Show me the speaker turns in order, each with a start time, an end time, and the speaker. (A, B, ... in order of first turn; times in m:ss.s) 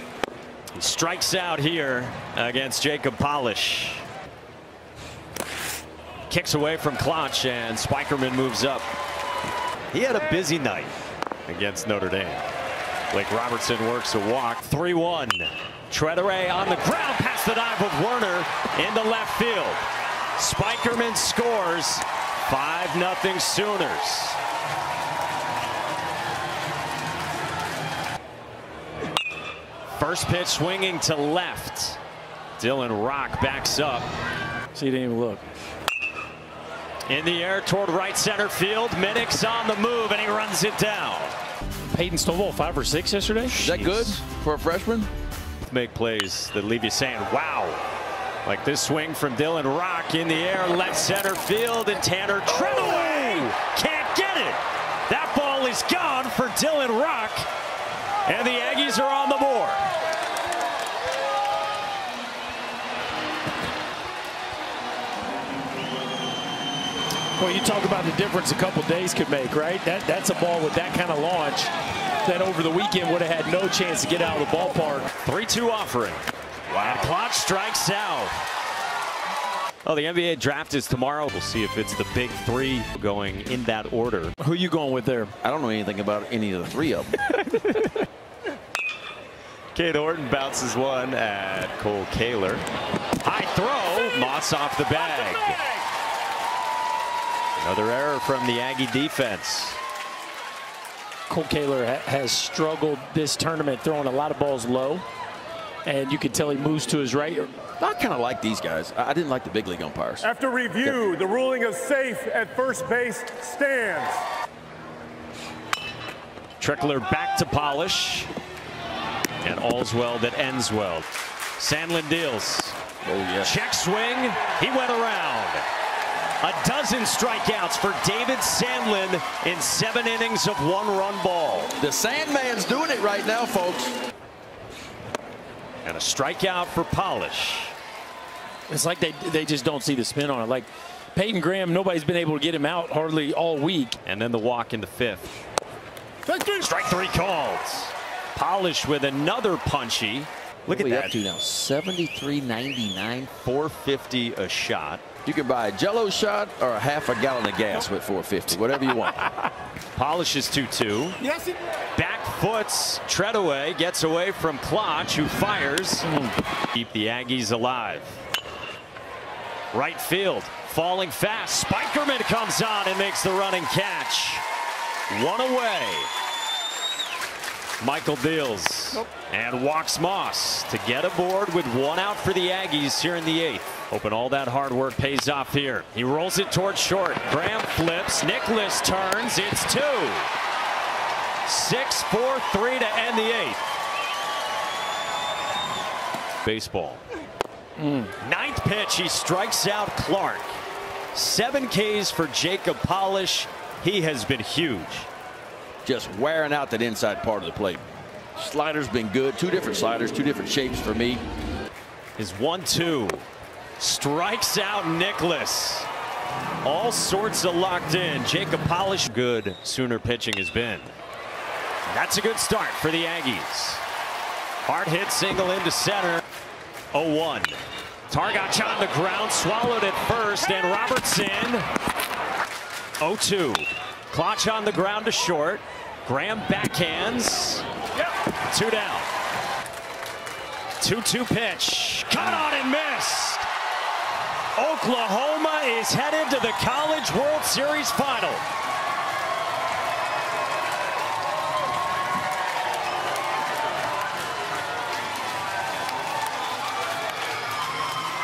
0:00.8-0:04.1 A
0:06.3-0:08.9 A
0:09.9-0:11.0 A
0:11.5-0:12.4 A
0:13.1-0:19.8 A
0:20.4-0:24.4 A
0:29.9-0:32.0 A
0:32.6-0:34.1 A
0:34.7-0:35.4 B
0:37.1-0:41.4 A
0:41.9-0:43.6 B
0:43.5-0:44.2 A
0:43.6-0:45.1 C
0:45.6-0:47.9 A
0:48.4-0:57.5 A
0:58.3-0:59.9 A
1:07.4-1:11.7 B
1:12.2-1:15.1 B
1:15.2-1:16.2 A
1:16.7-1:17.2 C
1:16.8-1:18.4 A
1:19.8-1:24.4 A
1:24.4-1:25.3 B
1:25.4-1:27.2 C
1:27.3-1:27.9 A
1:29.7-1:32.7 A
1:33.2-1:35.6 A
1:37.6-1:39.8 A
1:41.3-1:45.0 B
1:45.9-1:47.5 B
1:47.8-1:51.1 C
1:50.3-1:54.2 D
1:56.6-1:58.3 A
1:59.4-2:01.1 A
2:01.6-2:02.8 A
2:03.0-2:03.6 C
2:03.4-2:05.6 A
2:06.4-2:11.8 A
2:11.8-2:14.0 C
2:15.8-2:17.8 A
2:18.7-2:24.0 B
2:24.0-2:25.4 A
2:26.3-2:35.0 A
2:30.7-2:31.8 C
2:35.2-2:39.3 C
2:40.0-2:41.2 A
2:42.0-2:46.2 A
2:46.7-2:48.2 A
2:49.7-2:54.4 A
2:55.1-2:56.1 A
2:57.8-3:10.3 A
3:11.4-3:13.6 A
3:16.4-3:17.0 A
3:17.8-3:18.1 B
3:18.2-3:20.6 A
3:21.1-3:25.1 A
3:25.8-3:27.8 C
3:28.4-3:31.2 C
3:32.2-3:33.3 A
3:33.8-3:35.9 A
3:36.6-3:40.9 A
3:41.9-3:43.8 A
3:44.6-3:46.2 A
3:46.9-3:51.7 A
3:53.0-3:57.6 A
3:58.4-3:59.1 A
4:00.8-4:03.5 A
4:04.6-4:08.4 A